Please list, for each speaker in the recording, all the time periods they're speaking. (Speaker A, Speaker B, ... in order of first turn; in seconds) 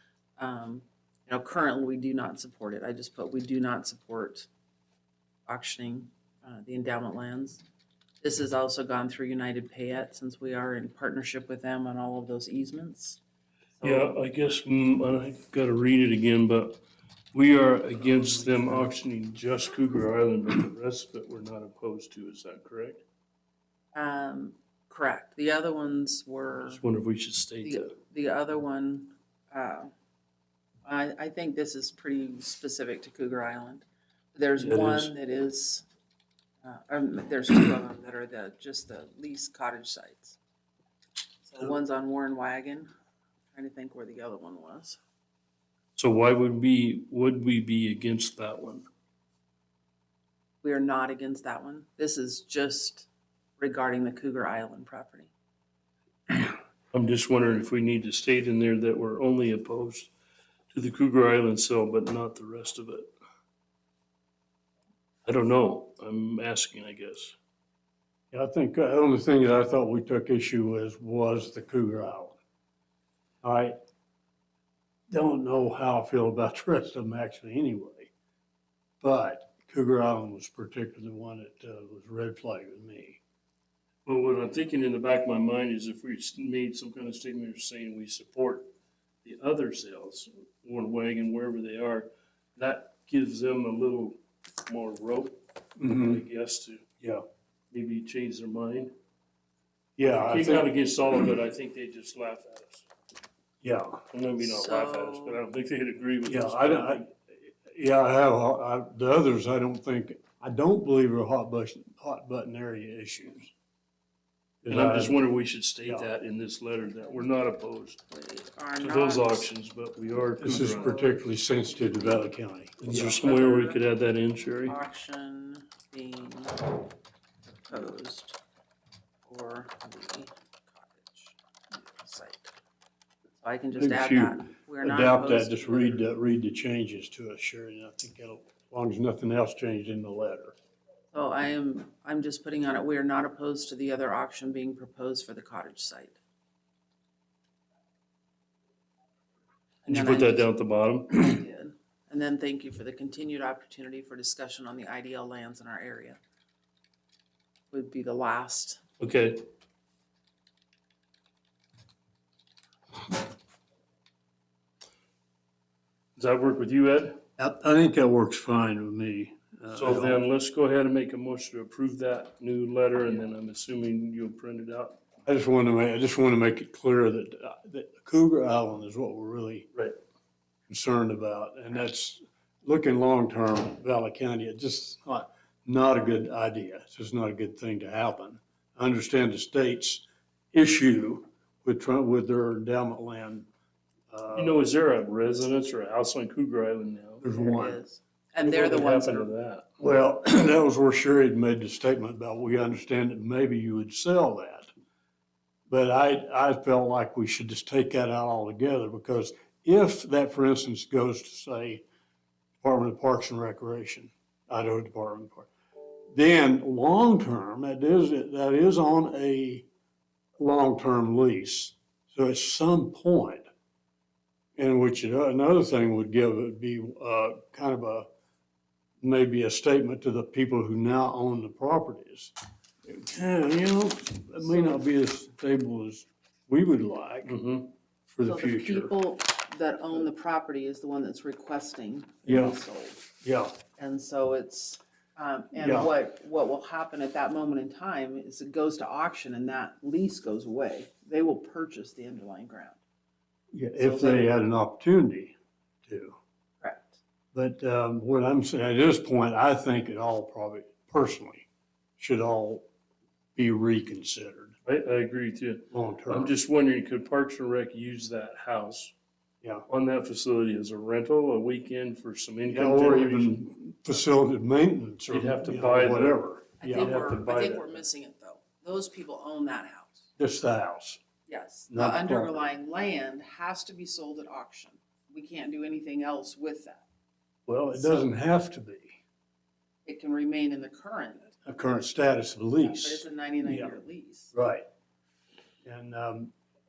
Speaker A: 0.4-4.5, 5.5-7.6, 8.2-13.2, 13.8-14.1, 23.9-26.8, 27.6-29.9, 30.8-35.8, 36.6-40.4, 41.5-42.9, 43.5-45.0, 50.6-55.3, 104.4-105.4, 118.1-119.5, 120.6-121.1, 123.0-123.8, 124.7-126.8, 127.6-128.4, 129.2-132.5, 133.4-136.0, 141.1-146.2, 149.8-150.5, 151.1-156.2, 157.7-158.8, 197.3-199.3, 234.4-234.8, 238.2-243.0, 243.8-252.8, 253.8-254.3, 256.6-257.0, 276.6-280.1, 281.3-286.8, 287.7-288.1, 289.8-291.3, 292.6-294.3
Speaker B: 13.8-16.8, 17.3-23.0, 26.6-27.9, 34.6-35.1, 46.0-48.8, 56.9-60.1, 60.7-63.1, 65.2-67.3, 84.0-88.7, 89.2-96.9, 97.7-98.9, 100.0-102.9, 104.1-107.1, 114.7-118.0, 118.8-121.0, 122.8-124.8, 149.9-151.4, 159.0-159.4, 166.2-167.2, 169.7-175.0, 194.3-197.2, 198.4-199.7, 237.2-237.7, 264.6-268.9, 269.7-273.4, 275.1-277.8
Speaker C: 68.3-72.4, 73.4-73.8, 75.1-78.1, 79.0-83.2, 95.8-96.2, 100.0-100.7, 103.6-104.0, 106.2-113.5, 114.6-115.2, 120.4-123.1, 133.8-140.5, 167.4-170.2, 175.2-179.7, 180.7-193.5, 194.1-194.6, 197.2-197.8, 199.8-204.7, 205.7-211.8, 212.6-215.5, 216.1-219.7, 220.4-223.5, 224.6-228.1, 229.0-232.3, 232.8-237.3, 238.1-238.9, 242.2-242.6, 243.2-243.5, 245.6-245.9, 253.5-256.1, 257.3-261.5, 262.0-262.6, 263.4-264.5, 265.7-266.3, 272.5-277.1, 280.2-281.0, 281.7-282.4, 287.5-289.0, 291.4-293.8, 294.3-294.6, 295.6-296.3